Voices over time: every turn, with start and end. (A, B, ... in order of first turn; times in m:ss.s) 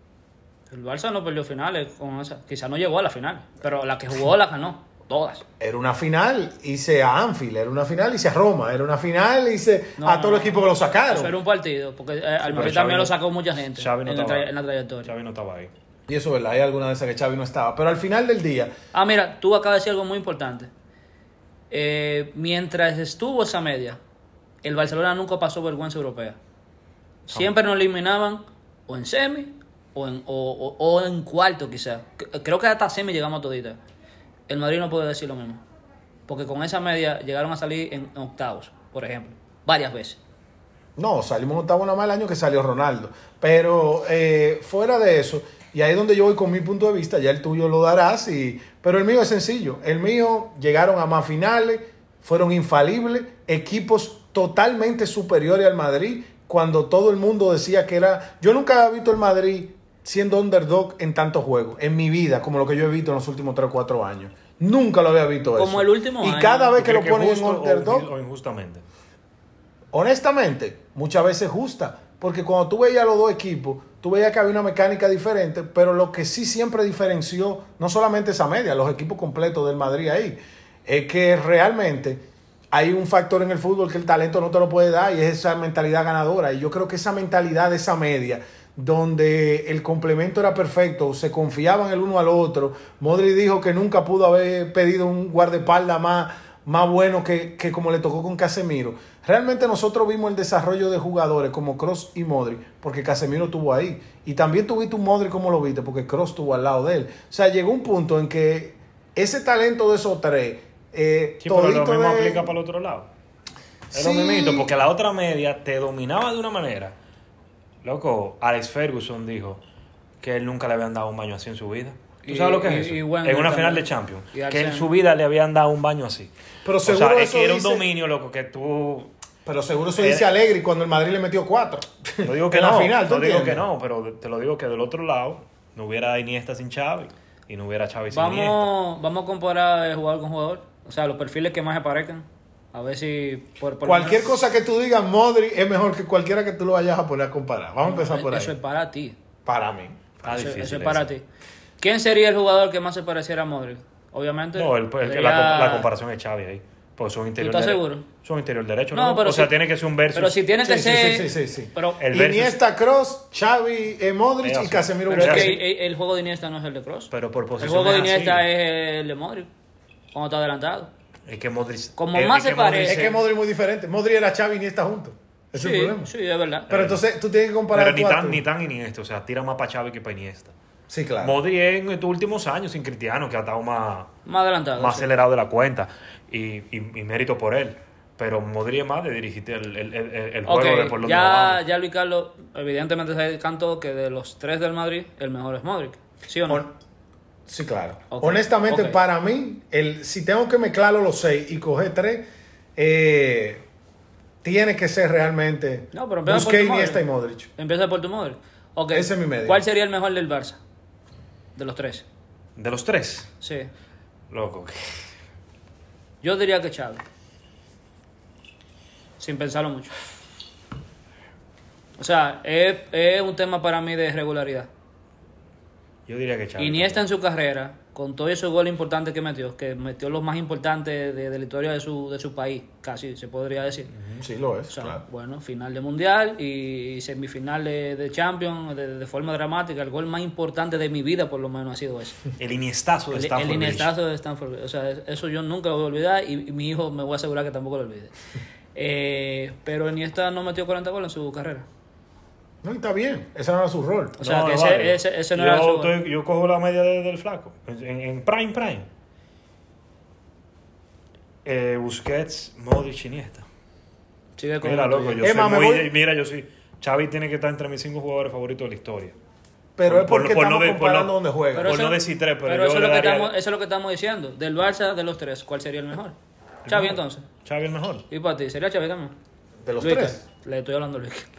0:00.7-0:05.4 A
0:05.6-0:11.3 B
0:10.0-0:15.1 A
0:12.4-0:14.5 C
0:15.0-0:15.7 C
0:16.1-0:18.7 B
0:18.9-0:20.7 A
0:21.7-0:24.0 A
0:24.6-0:26.4 A
0:27.3-0:33.8 A
0:34.5-0:35.6 A
0:36.3-0:40.2 A
0:41.0-1:08.1 B
1:05.6-1:06.8 A
1:06.8-1:08.8 C
1:09.9-1:52.5 B
1:51.4-1:53.1 C
1:53.9-1:54.7 B
1:53.9-1:56.9 C
1:57.8-1:59.6 C
2:00.2-2:06.3 C
2:02.2-2:04.9 A
2:06.6-2:07.8 B
2:06.8-2:09.1 C
2:09.4-2:13.6 B
2:10.0-2:10.3 C
2:12.2-2:18.7 C
2:18.1-2:24.3 A
2:23.8-2:28.5 B
2:27.8-2:29.2 A
2:29.4-2:30.1 B
2:30.2-2:31.1 C
2:30.3-2:31.2 A
2:31.8-2:35.9 A
2:34.5-2:40.4 C
2:37.4-2:38.0 A
2:38.9-2:39.5 A
2:40.1-2:42.0 A
2:40.6-2:45.6 B
2:42.0-2:42.6 C
2:44.4-2:45.6 C
2:45.1-2:47.1 A
2:47.1-2:48.4 C
2:47.6-2:49.5 A
2:50.1-2:50.9 A
2:51.2-2:53.1 C
2:52.0-2:53.2 A
2:52.8-2:56.1 B
2:55.5-2:56.7 A
2:56.7-2:58.4 B
2:56.7-2:57.0 C
2:57.7-3:00.5 C
3:00.9-3:01.4 B
3:01.2-3:04.1 C
3:04.2-3:05.1 A
3:04.8-3:11.6 C
3:10.4-3:16.6 A
3:16.5-3:16.7 B
3:17.5-3:23.6 B
3:18.1-3:19.0 A
3:24.4-3:27.5 B
3:25.9-3:27.0 A
3:27.6-3:30.6 A
3:28.9-3:29.6 B
3:31.6-3:32.0 A
3:32.6-3:33.3 C
3:33.4-3:33.7 A
3:34.3-3:35.0 C
3:36.2-3:37.0 A
3:39.2-3:39.9 A
3:42.0-3:44.7 A
3:46.1-3:47.0 C
3:46.6-3:53.9 A
3:53.9-3:54.2 C
3:54.2-3:55.0 B
3:54.7-4:02.2 A
4:02.4-4:03.9 C
4:03.1-4:08.1 A
4:08.7-4:11.6 A
4:12.6-4:14.2 B
4:14.2-4:15.9 A
4:14.2-4:18.9 C
4:21.4-4:23.4 C
4:24.4-4:25.2 A
4:24.6-4:29.1 C
4:25.2-4:25.9 B
4:29.8-4:31.8 B
4:29.8-4:33.3 C
4:31.5-4:36.1 A
4:36.6-4:38.0 C
4:36.7-4:37.3 A
4:38.1-4:39.1 A
4:39.6-4:40.2 B
4:39.8-4:41.3 A